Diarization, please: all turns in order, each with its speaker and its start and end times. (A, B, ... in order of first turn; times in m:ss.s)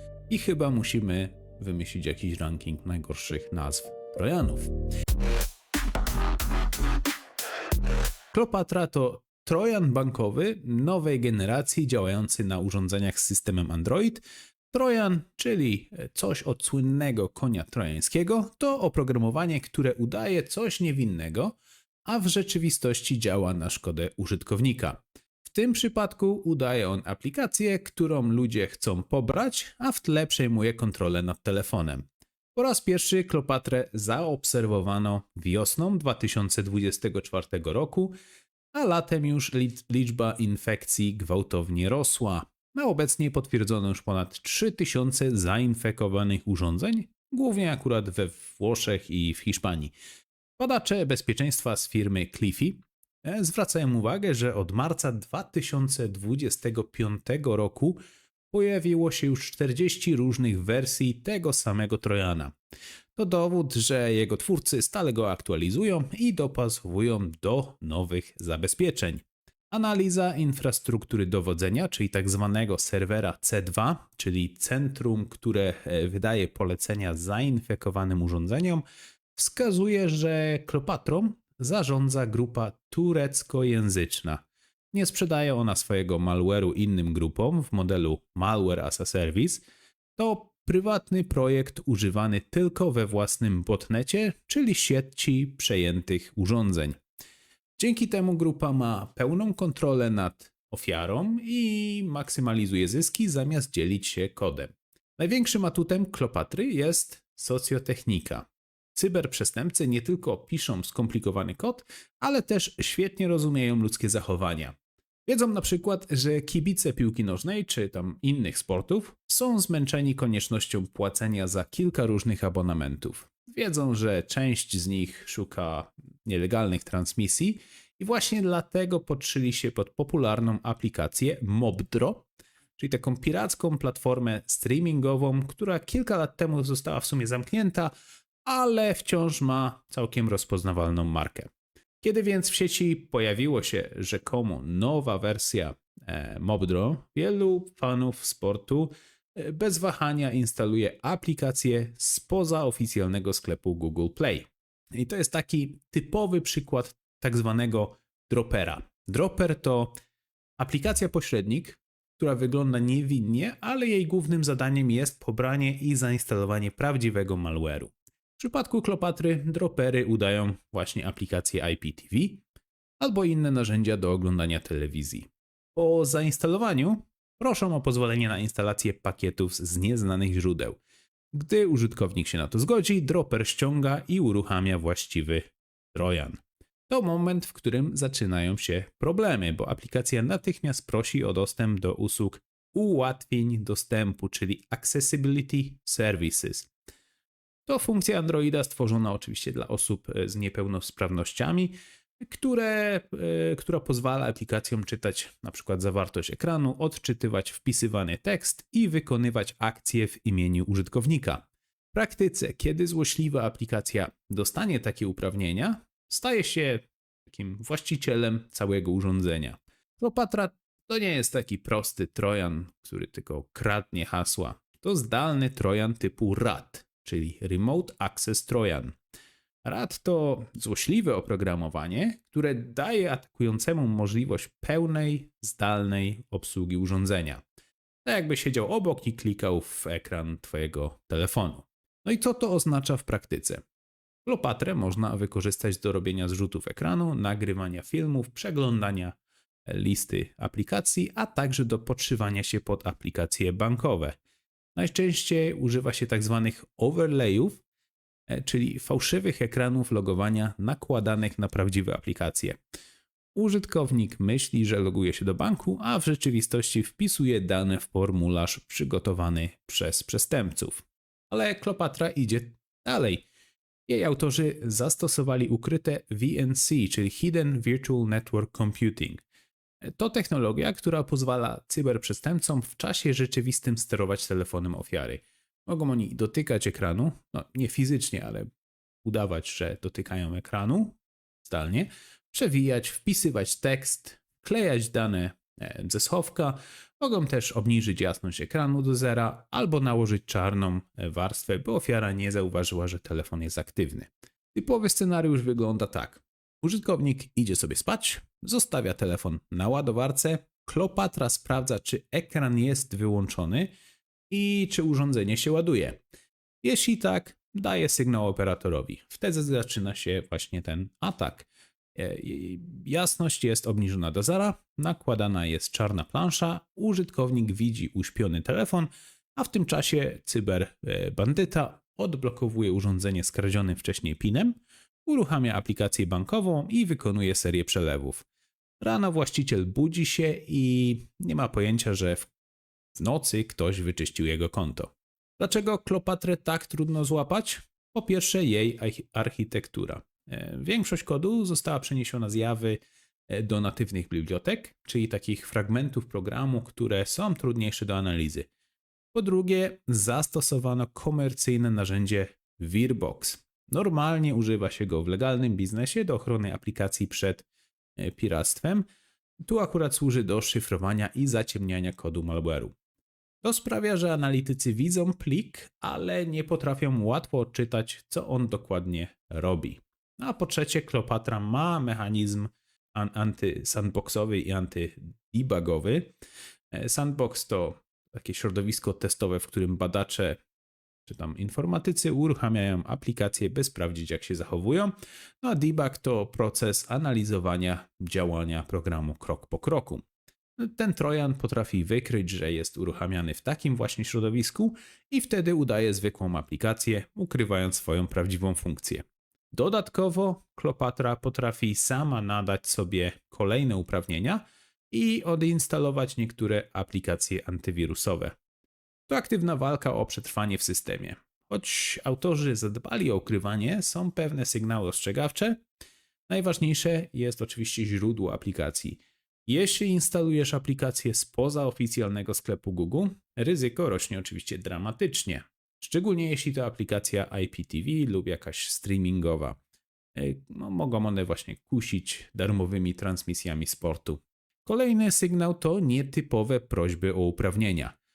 0:00.3-0:04.7 A
0:08.3-0:38.1 A
0:38.7-0:49.9 A
0:50.6-0:58.0 A
0:58.5-1:02.5 A
1:03.2-1:18.8 A
1:19.4-1:29.6 A
1:30.2-1:37.0 A
1:37.8-2:17.9 A
2:18.4-2:21.5 A
2:22.0-2:40.0 A
2:40.6-2:52.4 A
2:53.0-3:00.8 A
3:01.3-3:16.7 A
3:17.7-3:48.9 A
3:49.6-3:57.4 A
3:58.0-4:03.6 A
4:04.2-4:14.2 A
4:14.7-4:17.6 A
4:18.3-4:22.6 A
4:23.3-4:33.2 A
4:33.9-4:39.2 A
4:39.8-4:48.5 A
4:49.0-5:13.7 A
5:14.3-5:16.0 A
5:16.6-5:34.5 A
5:35.0-5:38.2 A
5:38.8-5:42.3 A
5:43.0-5:58.5 A
5:59.1-6:08.8 A
6:09.4-6:12.7 A
6:13.4-6:26.1 A
6:26.7-6:30.4 A
6:31.0-6:40.0 A
6:40.6-6:58.4 A
6:59.1-7:05.6 A
7:06.3-7:19.6 A
7:20.1-7:28.0 A